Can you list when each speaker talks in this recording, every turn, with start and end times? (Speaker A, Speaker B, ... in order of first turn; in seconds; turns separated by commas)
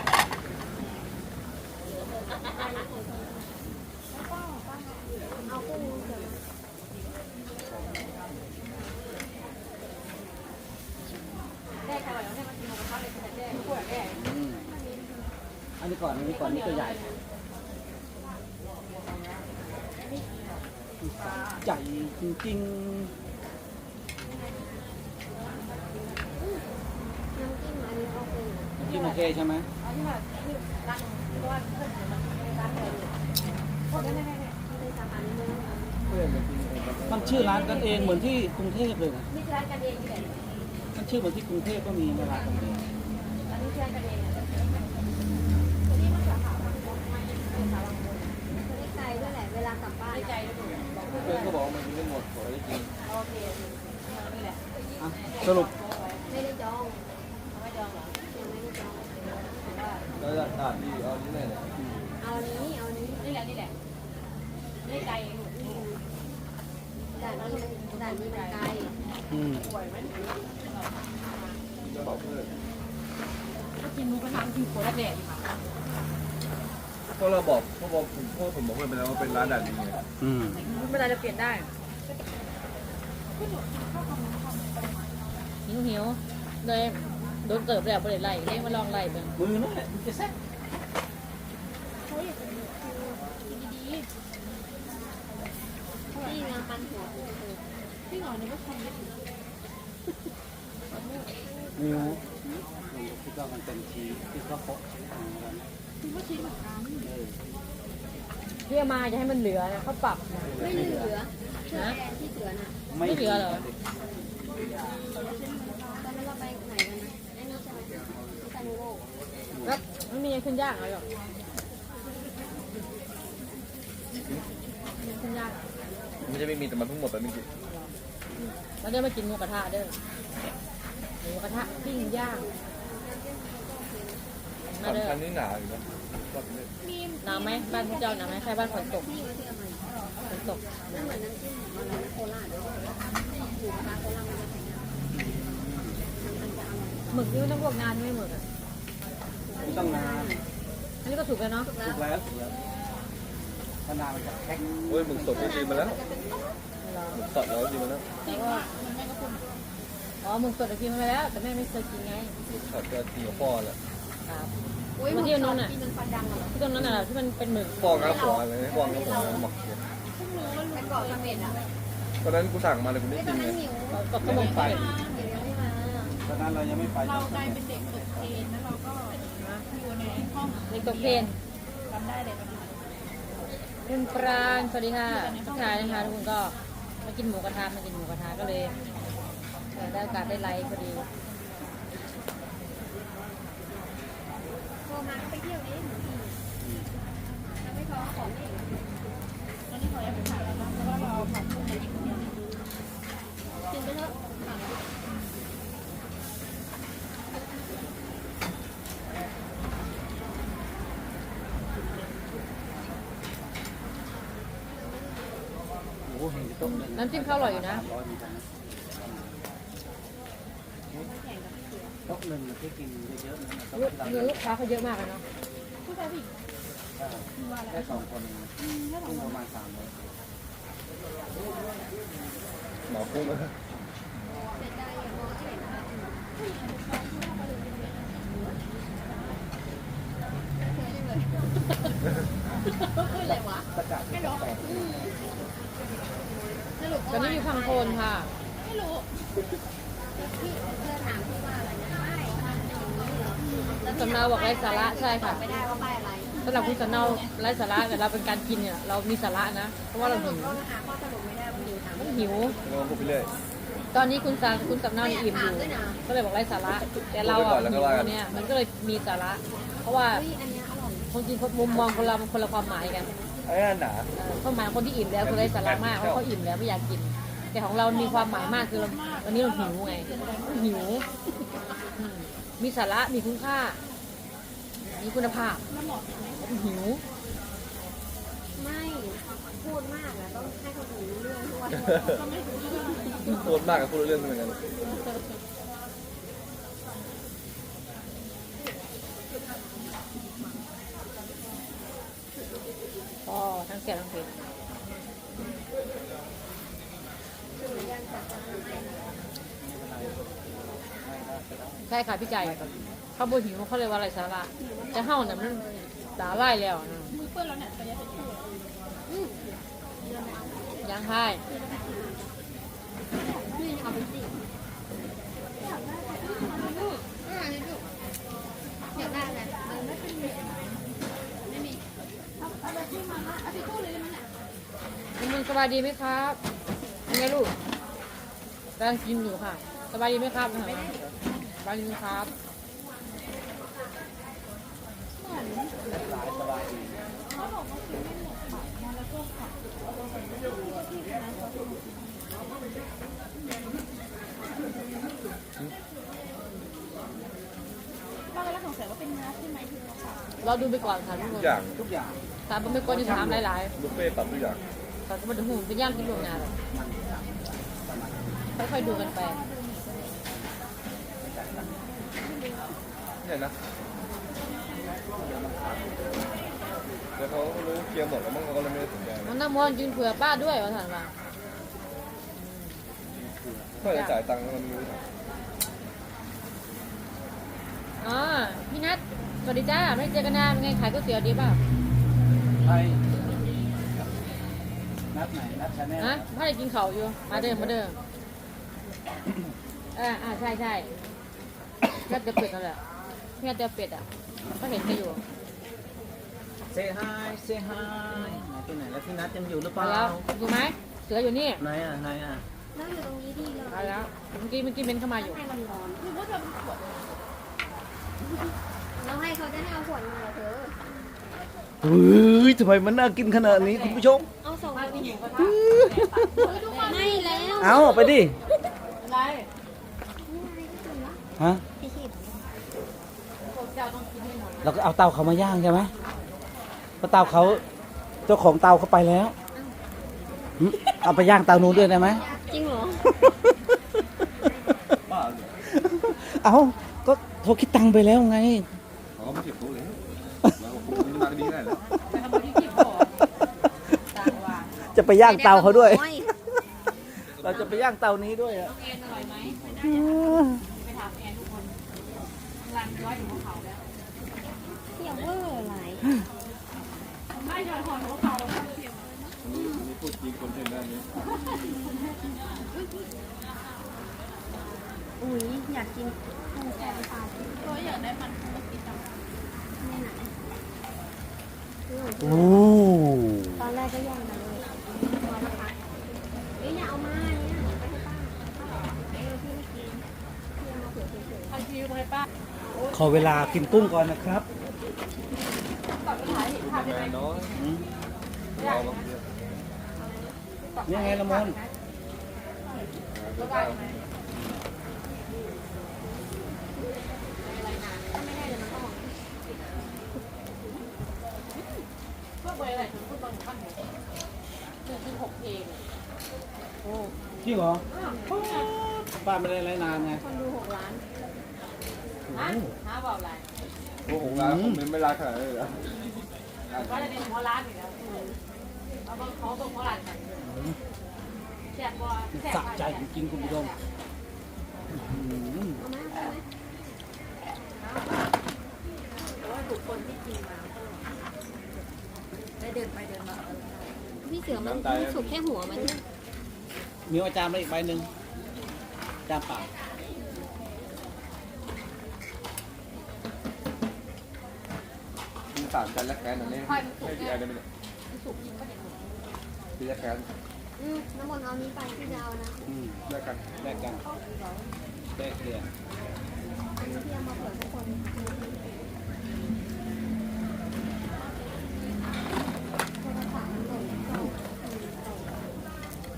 Speaker A: 2.5-3.5, Speaker B: 4.1-4.8, Speaker A: 5.5-6.4, Speaker C: 11.8-14.2, Speaker D: 14.1-14.7, Speaker D: 15.8-17.1, Speaker C: 16.2-17.2, Speaker C: 19.0-20.6, Speaker D: 21.1-23.1, Speaker C: 25.4-26.2, Speaker A: 27.3-28.7, Speaker D: 28.8-29.7, Speaker C: 28.8-33.1, Speaker C: 33.9-34.5, Speaker A: 34.0-35.9, Speaker E: 36.1-37.7, Speaker D: 37.1-39.3, Speaker C: 37.3-38.3, Speaker C: 39.3-40.4, Speaker D: 40.9-42.8, Speaker C: 43.5-44.4, Speaker B: 45.9-46.8, Speaker C: 46.8-48.3, Speaker A: 48.7-50.3, Speaker C: 48.9-49.3, Speaker C: 50.1-51.6, Speaker E: 51.1-52.9, Speaker C: 53.0-56.2, Speaker D: 55.0-55.7, Speaker A: 56.3-57.0, Speaker C: 57.5-58.1, Speaker A: 58.3-59.3, Speaker C: 59.2-60.0, Speaker E: 60.2-61.7, Speaker A: 62.2-63.2, Speaker C: 63.2-63.7, Speaker C: 64.8-65.8, Speaker A: 65.5-66.0, Speaker A: 67.2-68.9, Speaker C: 67.2-68.8, Speaker D: 69.3-69.7, Speaker C: 69.6-71.6, Speaker E: 71.8-72.5, Speaker C: 73.8-75.4, Speaker E: 77.2-80.0, Speaker D: 80.2-80.6, Speaker C: 80.6-81.7, Speaker B: 83.4-84.8, Speaker C: 85.7-89.3, Speaker D: 89.3-90.3, Speaker B: 92.1-92.6, Speaker A: 92.9-93.2, Speaker B: 93.5-94.1, Speaker A: 96.1-97.6, Speaker B: 98.1-99.2, Speaker B: 100.9-101.3, Speaker A: 101.7-102.2, Speaker D: 101.8-102.2, Speaker D: 102.9-105.7, Speaker B: 106.0-107.1, Speaker D: 107.0-107.4, Speaker C: 108.7-110.6, Speaker D: 110.5-111.1, Speaker A: 110.5-112.8, Speaker C: 111.7-112.0, Speaker D: 112.9-113.7, Speaker C: 113.0-113.7, Speaker B: 115.2-116.1, Speaker A: 116.0-119.1, Speaker C: 119.6-121.0, Speaker C: 125.0-125.6, Speaker E: 126.2-127.5, Speaker C: 128.8-129.9, Speaker C: 131.2-132.4, Speaker A: 131.5-134.2, Speaker C: 134.7-135.2, Speaker E: 134.8-136.7, Speaker B: 136.8-139.1, Speaker C: 137.2-139.1, Speaker A: 139.0-139.8, Speaker B: 139.8-140.6, Speaker C: 140.3-141.1, Speaker A: 140.9-144.9, Speaker D: 145.1-146.0, Speaker A: 146.2-147.4, Speaker C: 147.1-148.4, Speaker A: 149.5-150.4, Speaker D: 149.6-150.3, Speaker C: 151.0-151.7, Speaker A: 151.6-152.0, Speaker D: 151.8-152.5, Speaker D: 153.8-155.6, Speaker E: 154.9-156.0, Speaker A: 155.1-156.5, Speaker C: 156.8-157.2, Speaker E: 157.1-158.1, Speaker C: 158.2-158.6, Speaker B: 158.2-159.4, Speaker C: 160.2-162.3, Speaker E: 162.5-163.8, Speaker C: 164.2-164.5, Speaker A: 165.0-166.6, Speaker C: 165.1-165.7, Speaker C: 166.5-168.3, Speaker E: 167.8-169.8, Speaker A: 167.9-169.5, Speaker B: 170.2-171.7, Speaker A: 170.7-171.6, Speaker E: 172.2-173.6, Speaker A: 173.1-176.2, Speaker C: 173.9-174.9, Speaker B: 174.2-175.1, Speaker D: 176.2-178.4, Speaker B: 177.0-181.3, Speaker C: 179.2-179.6, Speaker C: 180.7-181.3, Speaker B: 181.9-182.8, Speaker C: 183.8-188.7, Speaker B: 185.1-186.2, Speaker C: 189.8-191.1, Speaker B: 189.8-191.7, Speaker A: 194.8-196.4, Speaker D: 196.6-196.9, Speaker A: 197.6-198.8, Speaker B: 199.7-202.3, Speaker A: 203.7-204.8, Speaker D: 216.1-219.5, Speaker C: 216.7-217.8, Speaker B: 221.0-221.7, Speaker D: 222.1-224.4, Speaker C: 223.7-225.2, Speaker B: 225.8-226.3, Speaker D: 226.9-229.9, Speaker B: 227.3-228.0, Speaker B: 228.6-229.3, Speaker E: 232.9-233.5, Speaker A: 234.5-236.2, Speaker B: 236.4-238.2, Speaker A: 240.6-241.4, Speaker A: 242.9-243.7, Speaker D: 243.8-244.8, Speaker B: 244.1-244.6, Speaker A: 244.6-245.2, Speaker A: 246.2-248.0, Speaker C: 247.1-248.3, Speaker B: 248.6-249.1, Speaker A: 250.2-257.2, Speaker C: 253.8-255.4, Speaker B: 256.4-257.3, Speaker C: 256.4-260.6, Speaker A: 259.9-263.1, Speaker C: 261.9-262.6, Speaker E: 262.6-263.3, Speaker C: 263.9-270.2, Speaker A: 264.9-266.0, Speaker E: 267.2-268.2, Speaker A: 270.1-271.1, Speaker C: 271.1-273.1, Speaker A: 271.6-273.4, Speaker E: 273.4-274.1, Speaker C: 274.2-281.1, Speaker E: 275.2-276.2, Speaker B: 277.9-281.0, Speaker C: 281.9-283.8, Speaker C: 284.9-285.6, Speaker B: 285.7-286.4, Speaker C: 286.4-287.0, Speaker A: 288.6-292.2, Speaker B: 292.1-293.3, Speaker E: 293.3-294.6, Speaker C: 294.8-295.4, Speaker C: 303.2-304.3, Speaker A: 307.6-309.2, Speaker D: 309.6-311.8, Speaker C: 311.9-312.6, Speaker D: 312.4-313.0, Speaker C: 313.2-317.1, Speaker A: 314.6-315.9, Speaker B: 317.1-318.6, Speaker A: 319.1-320.9, Speaker C: 320.8-321.4, Speaker A: 321.4-322.3, Speaker B: 323.2-323.7, Speaker A: 323.5-324.4, Speaker B: 325.6-326.9, Speaker A: 326.1-327.8, Speaker A: 328.9-329.9, Speaker B: 329.0-330.8, Speaker A: 331.5-331.8, Speaker B: 332.4-334.2, Speaker C: 335.2-336.4, Speaker C: 337.1-337.5, Speaker C: 338.8-340.9, Speaker B: 340.9-341.3, Speaker C: 341.6-342.3, Speaker B: 345.2-345.7, Speaker D: 345.9-347.0, Speaker B: 347.4-349.5, Speaker B: 350.4-352.2, Speaker B: 358.3-360.2, Speaker C: 360.4-361.6, Speaker E: 361.3-361.8, Speaker D: 361.7-363.4, Speaker C: 362.5-363.7, Speaker E: 363.8-364.6, Speaker C: 365.1-366.5, Speaker D: 366.1-368.6, Speaker C: 368.6-369.4, Speaker B: 368.7-370.1, Speaker D: 371.2-371.9, Speaker B: 372.2-372.7, Speaker E: 373.2-373.5, Speaker D: 375.1-376.2, Speaker E: 377.2-379.3, Speaker C: 379.2-381.1, Speaker C: 382.4-382.8, Speaker D: 383.2-383.7, Speaker E: 383.8-385.0, Speaker C: 388.0-391.6, Speaker D: 392.6-393.0, Speaker D: 395.1-396.3, Speaker C: 396.0-398.0, Speaker D: 397.3-397.7, Speaker C: 399.9-400.9, Speaker C: 402.1-402.8, Speaker C: 403.4-404.1, Speaker C: 404.6-405.2, Speaker D: 406.7-410.2, Speaker C: 409.8-411.6, Speaker D: 411.6-412.4, Speaker A: 412.7-414.1, Speaker C: 413.7-415.4, Speaker A: 415.1-416.1, Speaker B: 416.0-417.0, Speaker A: 418.9-420.8, Speaker D: 421.8-424.3, Speaker C: 423.4-424.0, Speaker A: 424.4-425.2, Speaker C: 424.7-427.7, Speaker B: 426.4-427.6, Speaker A: 426.7-428.2, Speaker D: 427.6-428.3, Speaker C: 429.0-429.5, Speaker A: 430.2-431.2, Speaker D: 431.4-431.6, Speaker A: 431.8-432.4, Speaker C: 433.5-434.8, Speaker D: 434.6-435.9, Speaker D: 437.0-437.6, Speaker C: 437.3-437.6, Speaker D: 438.3-439.3, Speaker D: 440.6-442.2, Speaker A: 442.1-443.3, Speaker E: 445.1-445.5, Speaker D: 445.7-448.7, Speaker E: 449.2-451.9, Speaker C: 452.1-453.2, Speaker C: 454.1-454.7, Speaker D: 454.9-456.2, Speaker A: 455.2-456.3, Speaker E: 457.4-457.7, Speaker D: 457.4-458.7, Speaker C: 458.6-459.6, Speaker E: 459.4-459.9, Speaker D: 459.8-460.6, Speaker C: 460.7-461.8, Speaker C: 462.6-463.8, Speaker A: 464.9-466.1, Speaker C: 467.3-468.7, Speaker B: 468.5-469.0, Speaker E: 469.4-471.1, Speaker A: 469.5-469.9, Speaker A: 475.2-478.0, Speaker B: 477.6-479.1, Speaker A: 479.8-480.3, Speaker A: 481.9-482.7, Speaker D: 482.2-483.6, Speaker A: 483.6-484.7, Speaker A: 485.2-485.7, Speaker A: 486.6-490.0, Speaker A: 490.6-491.6, Speaker C: 491.5-493.9, Speaker D: 492.9-494.4, Speaker C: 496.0-497.2, Speaker E: 496.4-497.6, Speaker D: 497.6-497.8, Speaker E: 498.6-499.2, Speaker C: 498.6-499.1, Speaker A: 500.0-500.4, Speaker C: 500.7-501.7, Speaker D: 500.9-501.6, Speaker E: 503.1-503.9, Speaker C: 503.4-503.9, Speaker C: 507.4-508.3, Speaker A: 508.1-509.1, Speaker C: 512.4-513.8, Speaker C: 514.9-515.8, Speaker D: 517.4-520.2, Speaker C: 517.9-518.7, Speaker A: 518.0-518.3, Speaker A: 519.8-521.0, Speaker D: 522.3-522.7, Speaker C: 522.3-523.5, Speaker E: 524.1-526.0, Speaker D: 524.1-524.8, Speaker E: 526.7-527.1, Speaker C: 526.7-528.0, Speaker A: 528.0-528.4, Speaker C: 529.1-530.6, Speaker D: 530.4-530.8, Speaker C: 531.7-533.8, Speaker D: 532.3-533.7, Speaker D: 534.9-535.8, Speaker A: 535.8-536.4, Speaker C: 537.8-538.1, Speaker C: 539.3-541.1, Speaker C: 542.6-543.9, Speaker A: 544.2-546.0, Speaker E: 544.5-545.4, Speaker D: 547.1-548.1, Speaker D: 549.2-549.7, Speaker E: 555.5-557.6, Speaker C: 556.5-557.4, Speaker C: 558.1-559.1, Speaker E: 559.8-560.3, Speaker A: 560.8-562.6, Speaker D: 562.6-563.0, Speaker E: 563.1-563.7, Speaker D: 563.6-564.0, Speaker D: 565.1-565.7, Speaker A: 566.8-568.6, Speaker A: 573.0-575.6, Speaker D: 573.7-574.4